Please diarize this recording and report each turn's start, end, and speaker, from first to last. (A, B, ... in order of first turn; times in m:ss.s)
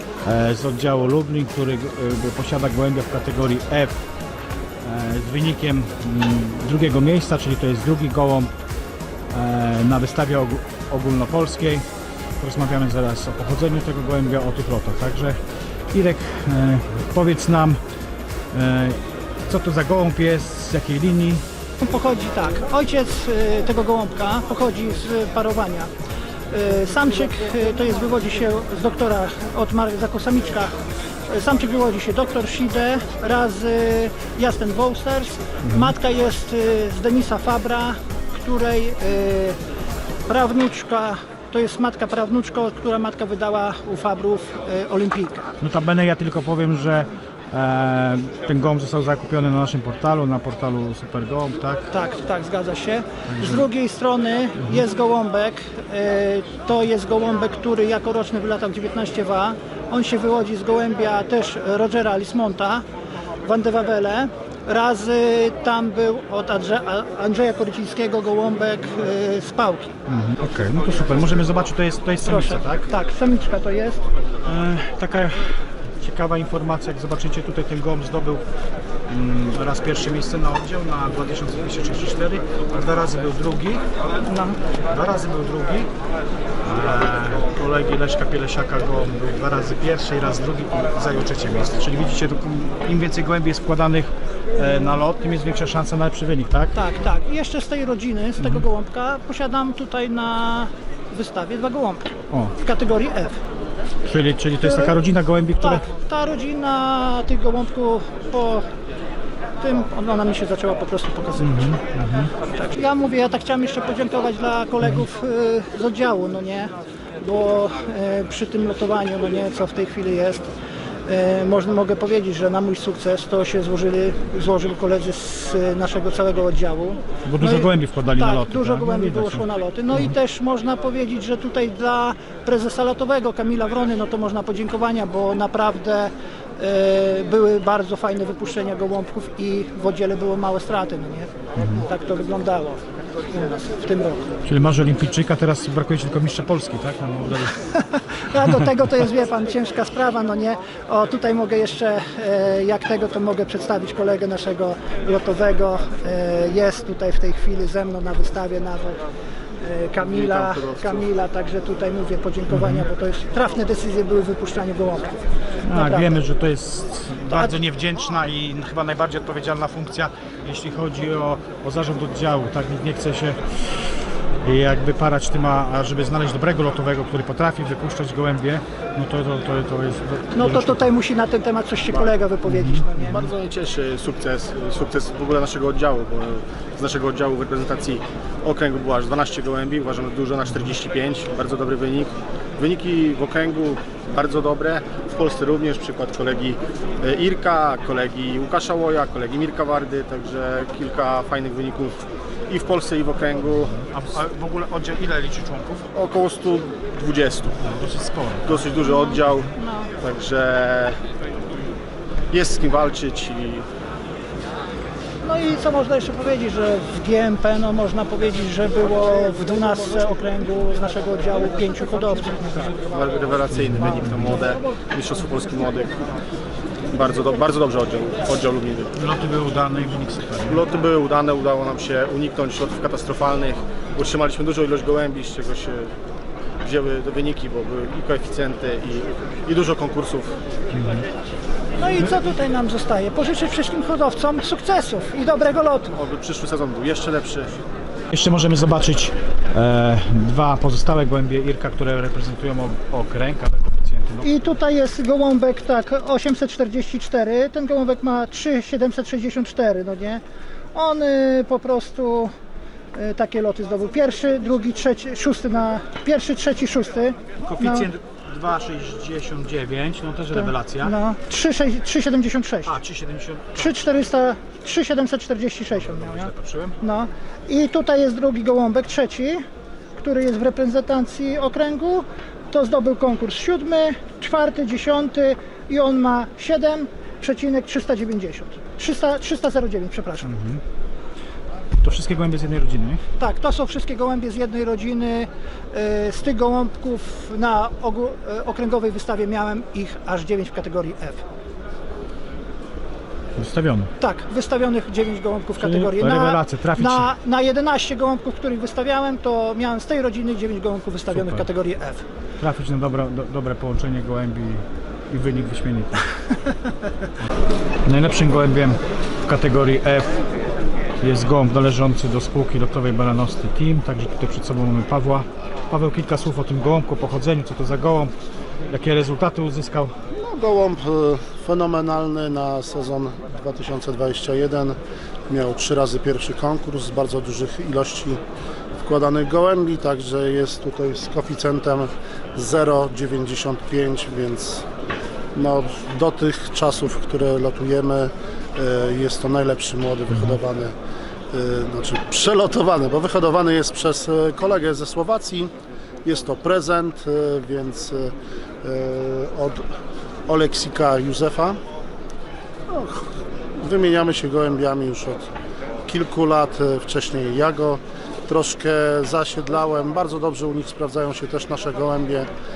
0:00.2-0:04.0 A
0:04.8-0:08.5 A
0:09.3-0:11.8 A
0:12.4-0:15.4 A
0:15.9-0:17.8 A
0:18.5-0:21.4 A
0:21.8-0:25.9 B
0:26.5-0:30.7 B
0:31.3-0:39.6 B
0:35.6-0:35.9 A
0:40.3-0:45.5 B
0:45.6-0:51.8 A
0:51.9-1:02.8 B
0:53.3-0:53.7 A
1:03.4-1:09.9 B
1:10.1-1:12.8 A
1:12.2-1:14.0 B
1:14.4-1:18.4 A
1:19.1-1:23.8 A
1:24.2-1:24.6 B
1:24.9-1:25.9 A
1:26.6-1:36.7 A
1:36.7-1:43.4 B
1:38.4-1:38.6 A
1:44.0-1:45.8 A
1:44.6-1:44.9 B
1:45.6-1:48.6 B
1:49.6-1:51.6 B
1:51.4-1:52.3 A
1:52.5-2:00.4 B
1:54.8-1:55.1 A
2:01.0-2:21.3 B
2:07.2-2:10.1 A
2:21.6-2:21.8 A
2:21.8-2:24.2 B
2:24.4-2:27.6 A
2:28.1-2:39.0 B
2:39.6-2:45.2 B
2:40.1-2:41.0 C
2:42.5-2:42.8 A
2:45.6-2:53.8 A
2:45.7-2:46.1 B
2:47.3-2:47.5 B
2:54.4-3:00.9 A
3:00.3-3:03.3 B
3:01.9-3:02.1 D
3:02.4-3:02.9 A
3:03.0-3:21.9 D
3:22.5-3:23.7 D
3:23.5-3:25.9 A
3:25.9-3:27.6 D
3:27.6-3:28.7 A
3:28.4-3:29.5 D
3:28.8-3:29.9 B
3:30.0-3:31.0 D
3:32.3-3:33.6 D
3:35.2-3:42.7 B
3:42.7-3:46.0 D
3:43.5-3:44.4 A
3:46.9-3:48.9 D
3:49.0-3:50.6 A
3:50.5-3:55.9 D
3:56.6-4:00.3 D
4:00.7-4:01.0 A
4:01.8-4:06.0 B
4:05.9-4:07.5 D
4:08.1-4:14.6 A
4:14.2-4:20.2 B
4:20.7-4:22.3 B
4:22.9-4:27.9 B
4:27.4-4:30.9 A
4:30.3-4:32.7 B
4:32.6-4:33.8 A
4:33.5-4:39.4 B
4:35.7-4:36.8 A
4:40.0-4:50.3 B
4:50.2-4:50.6 A
4:51.8-4:53.0 A
4:53.2-5:01.2 B
5:03.4-5:03.9 A
5:04.0-5:12.0 B
5:05.6-5:07.1 A
5:11.1-5:11.5 A
5:12.4-5:16.0 A
5:17.8-5:20.1 A
5:21.0-5:28.1 A
5:28.7-5:29.9 A
5:30.2-5:34.8 C
5:35.3-5:38.2 C
5:38.8-5:44.6 C
5:45.3-5:50.7 C
5:50.1-5:50.4 A
5:51.3-5:55.5 C
5:56.0-5:59.6 C
6:00.3-6:01.6 C
6:02.7-6:03.0 C
6:03.6-6:05.3 C
6:05.8-6:12.3 C